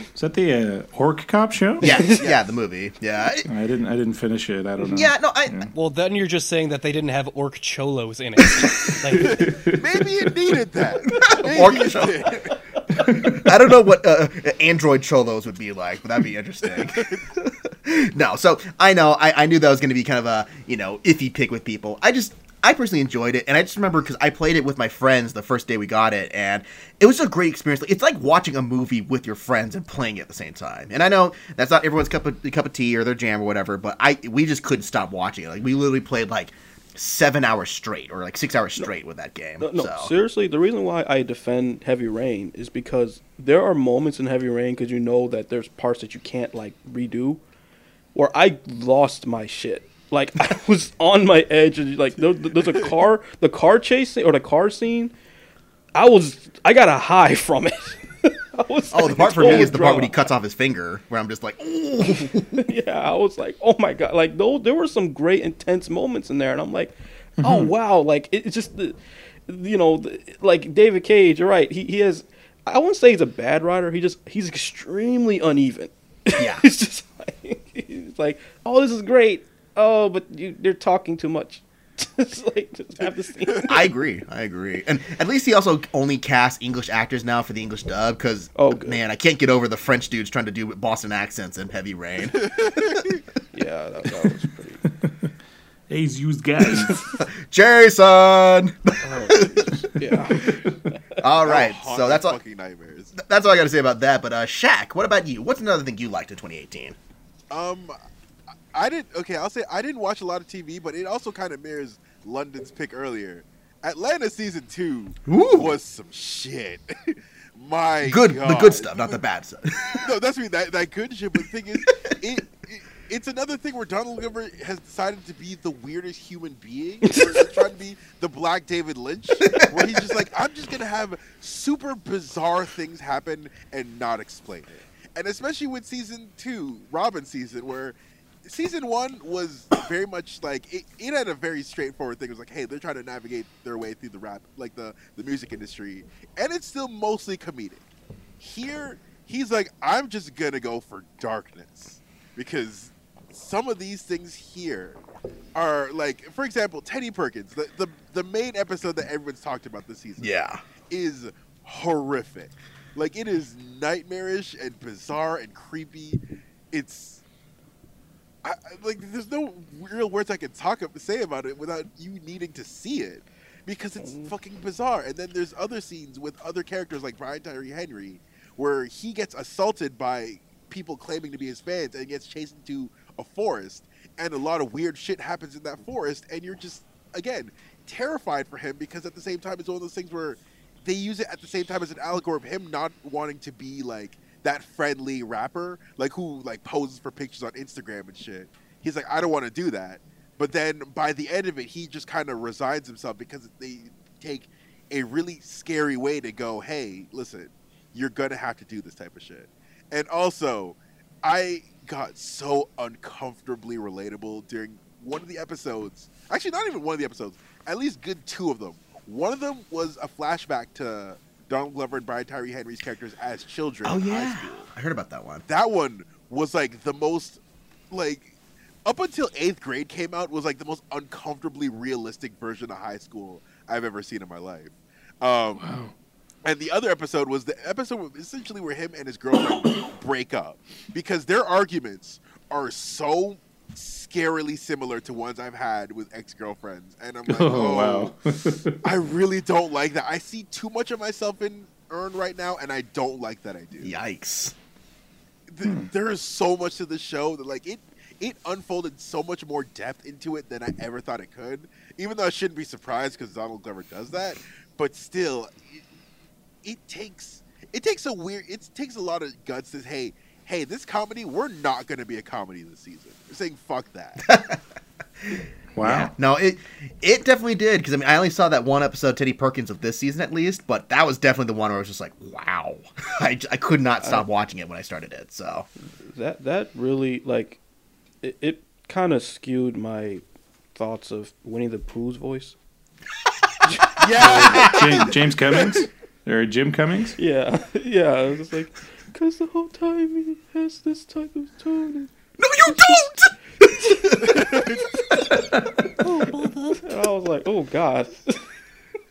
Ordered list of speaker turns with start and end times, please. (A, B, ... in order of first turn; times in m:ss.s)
0:00.1-0:01.9 A
0:01.8-0:02.2 B
0:01.8-0:03.5 C
0:03.5-0:05.7 A
0:04.9-0:05.7 C
0:05.7-0:09.6 D
0:09.2-0:10.0 A
0:09.2-0:12.4 E
0:11.1-0:40.1 C
0:16.9-0:17.2 E
0:39.6-0:47.4 B
0:48.1-0:55.1 B
0:55.9-1:00.2 B
0:58.9-1:02.6 C
1:02.2-1:23.7 B
1:07.4-1:07.7 A
1:16.3-1:16.6 C
1:23.6-1:33.1 C
1:28.6-1:29.0 B
1:32.4-1:33.2 E
1:33.5-1:34.8 B
1:35.0-1:35.3 A
1:35.9-1:37.2 A
1:36.9-1:39.7 C
1:39.0-1:41.0 B
1:41.2-1:42.4 C
1:41.4-1:43.1 E
1:43.2-1:47.0 C
1:47.5-1:48.0 E
1:48.7-1:59.2 E
1:55.3-1:55.8 C
1:58.0-2:00.1 C
2:00.0-2:27.8 E
2:09.5-2:09.9 C
2:28.4-2:35.0 E
2:35.5-2:40.3 E
2:40.2-2:40.6 C
2:40.9-2:46.2 E
2:46.7-2:47.2 E
2:48.4-3:44.7 E
2:54.0-2:54.3 B
3:43.8-3:45.4 C
3:45.5-3:47.4 E
3:47.9-3:48.3 E
3:48.8-3:55.6 E
3:55.6-3:55.9 A
3:56.4-4:08.1 E
4:07.3-4:08.8 A
4:08.8-4:13.9 E
4:13.8-4:14.5 C
4:15.5-4:25.8 E
4:15.6-4:15.9 A
4:26.6-4:34.2 E
4:34.2-4:34.6 C
4:35.2-4:45.7 C
4:35.7-4:36.1 A
4:46.1-4:47.6 B
4:48.2-4:50.2 B
4:50.7-4:52.6 B
4:54.0-4:55.1 E
4:54.2-4:57.2 A
4:54.2-4:55.0 C
4:57.2-5:02.1 B
5:02.4-5:04.7 C
5:02.7-5:03.1 B
5:04.2-5:04.8 E
5:06.0-5:08.5 B